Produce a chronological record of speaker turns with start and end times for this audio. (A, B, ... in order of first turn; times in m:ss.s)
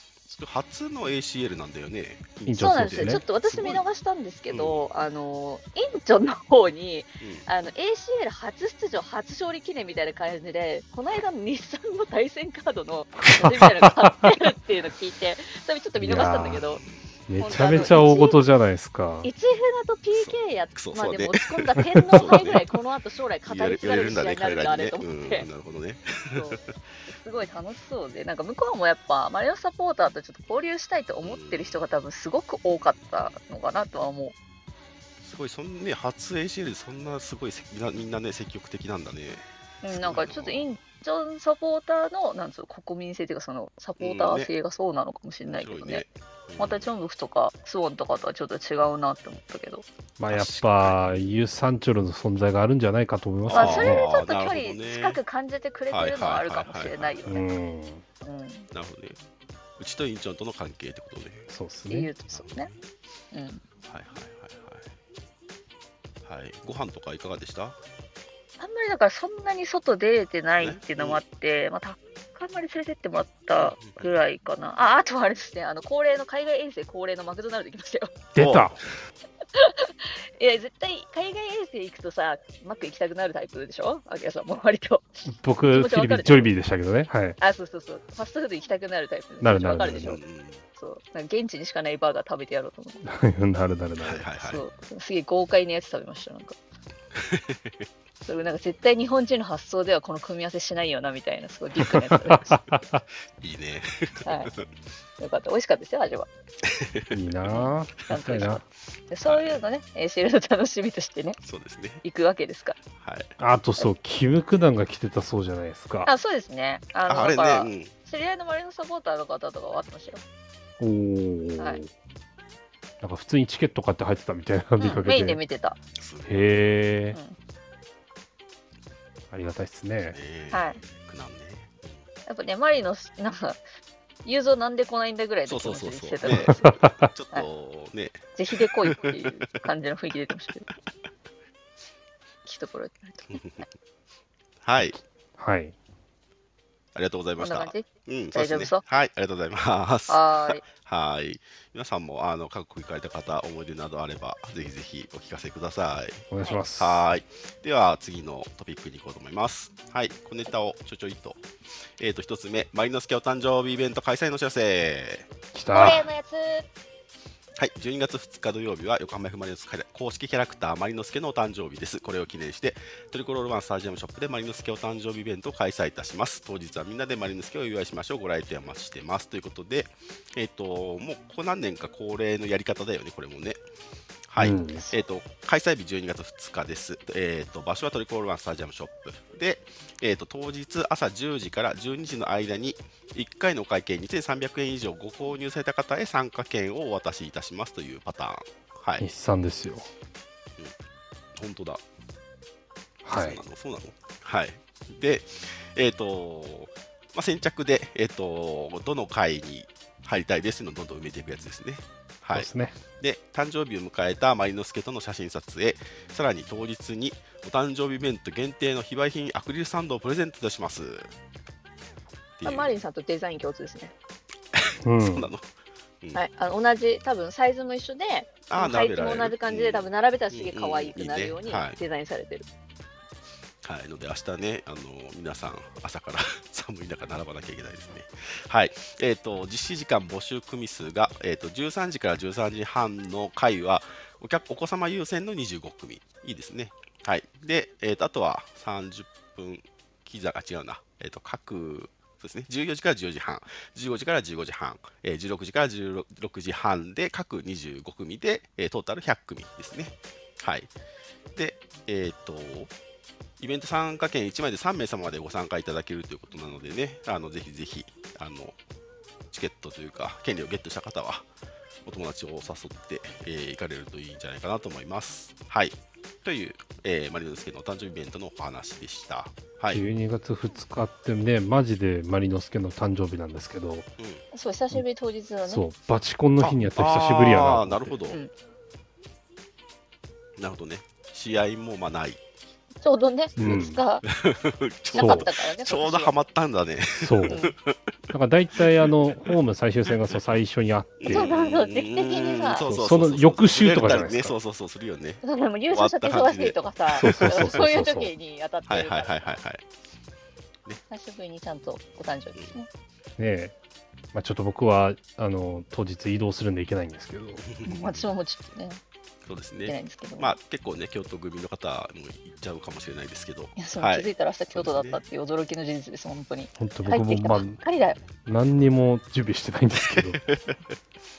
0:00.2-0:03.8 A
0:02.5-0:03.2 B
0:02.6-0:16.8 C
0:04.5-0:04.9 A
0:07.2-0:07.5 A
0:13.3-0:14.1 B
0:16.0-0:16.6 B
0:16.7-0:17.1 A
0:17.3-0:19.3 B
0:17.4-0:18.4 C
0:17.6-0:17.9 A
0:19.2-0:25.5 C
0:20.2-0:22.8 A
0:23.5-0:26.6 A
0:26.3-0:34.4 C
0:31.2-0:31.9 A
0:32.9-0:33.3 A
0:35.2-0:40.7 A
0:39.8-0:46.1 C
0:44.0-0:44.5 A
0:45.5-0:46.9 A
0:46.6-0:49.8 C
0:50.2-0:54.1 B
0:50.3-0:51.4 A
0:53.4-0:55.2 A
0:53.5-0:57.5 C
0:55.9-0:57.3 A
0:57.3-0:58.0 B
0:58.2-0:58.7 C
0:58.7-0:59.2 A
0:59.8-1:01.5 A
1:01.5-1:02.1 B
1:01.9-1:02.7 C
1:02.3-1:02.8 A
1:03.3-1:03.6 C
1:03.9-1:04.9 A
1:06.2-1:07.8 A
1:08.6-1:18.2 C
1:10.6-1:11.2 A
1:13.6-1:14.2 A
1:18.4-1:18.8 B
1:18.4-1:19.0 A
1:19.6-1:26.5 C
1:25.3-1:27.4 B
1:27.4-1:30.2 C
1:29.4-1:30.2 B
1:29.9-1:30.6 A
1:30.8-1:33.0 C
1:33.0-1:34.3 B
1:34.0-1:34.6 A
1:34.4-1:36.6 C
1:37.1-1:37.9 A
1:38.2-1:42.6 C
1:41.9-1:43.0 B
1:43.4-1:44.7 A
1:44.2-1:44.5 C
1:45.2-1:46.3 C
1:46.6-1:47.5 A
1:47.1-1:48.6 B
1:47.5-1:51.4 C
1:49.2-1:49.6 A
1:51.4-1:52.0 A
1:52.0-1:52.8 C
1:53.0-1:53.3 A
1:53.4-1:56.1 B
1:56.1-2:00.2 C
1:57.1-1:57.9 A
2:00.8-2:01.9 B
2:03.0-2:05.4 B
2:04.8-2:05.8 C
2:06.0-2:06.5 A
2:06.3-2:07.2 B
2:09.3-2:10.2 B
2:10.1-2:12.1 A
2:10.5-2:10.8 C
2:12.3-2:13.6 C
2:14.2-2:16.7 C
2:15.5-2:19.3 A
2:16.3-2:17.1 B
2:18.4-2:20.7 C
2:22.4-2:23.6 C
2:23.3-2:23.6 A
2:24.6-2:25.0 A
2:25.4-2:25.8 B
2:27.0-2:41.4 A
2:27.4-2:28.8 C
2:30.1-2:30.7 C
2:36.3-2:37.1 B
2:42.0-2:45.3 A
2:45.5-2:46.1 B
2:45.7-2:46.6 C
2:47.6-3:03.6 A
3:04.3-3:19.1 A
3:04.4-3:04.9 B
3:04.6-3:05.0 C
3:19.0-3:19.9 B
3:21.4-3:21.8 A
3:23.0-3:23.4 B
3:23.1-3:41.1 A
3:32.3-3:32.8 B
3:42.4-3:42.7 A
3:42.4-3:43.9 C
3:44.5-3:45.5 A
3:44.8-3:45.3 B
3:46.2-3:52.5 C
3:48.5-3:51.8 A
3:53.6-4:20.7 A
4:21.4-4:22.7 A
4:23.4-4:28.6 A
4:29.3-4:31.3 A
4:31.8-4:39.8 A
4:39.7-4:43.9 B
4:44.0-4:44.2 A
4:44.3-4:45.6 C
4:45.5-4:48.0 B
4:46.4-4:48.2 A
4:50.4-4:52.2 A
4:52.8-4:54.0 C
4:53.4-4:53.8 B
4:53.4-4:57.9 A
4:54.9-4:56.1 C
4:55.0-4:55.3 B
4:57.0-4:57.4 B
4:57.3-4:57.5 C
4:58.1-5:01.3 B
4:58.6-4:58.8 A
4:59.9-5:00.2 A
5:01.0-5:07.7 A
5:01.1-5:02.7 C
5:02.6-5:04.4 B
5:05.2-5:09.3 C
5:07.0-5:08.1 B
5:08.7-5:09.6 A
5:10.9-5:12.7 C
5:13.2-5:13.6 B
5:14.1-5:17.5 B
5:17.4-5:18.1 A
5:17.6-5:18.8 C
5:19.2-5:25.0 A
5:19.6-5:20.4 C
5:23.6-5:28.0 C
5:26.6-5:27.6 B
5:28.2-5:30.2 B
5:29.9-5:30.8 A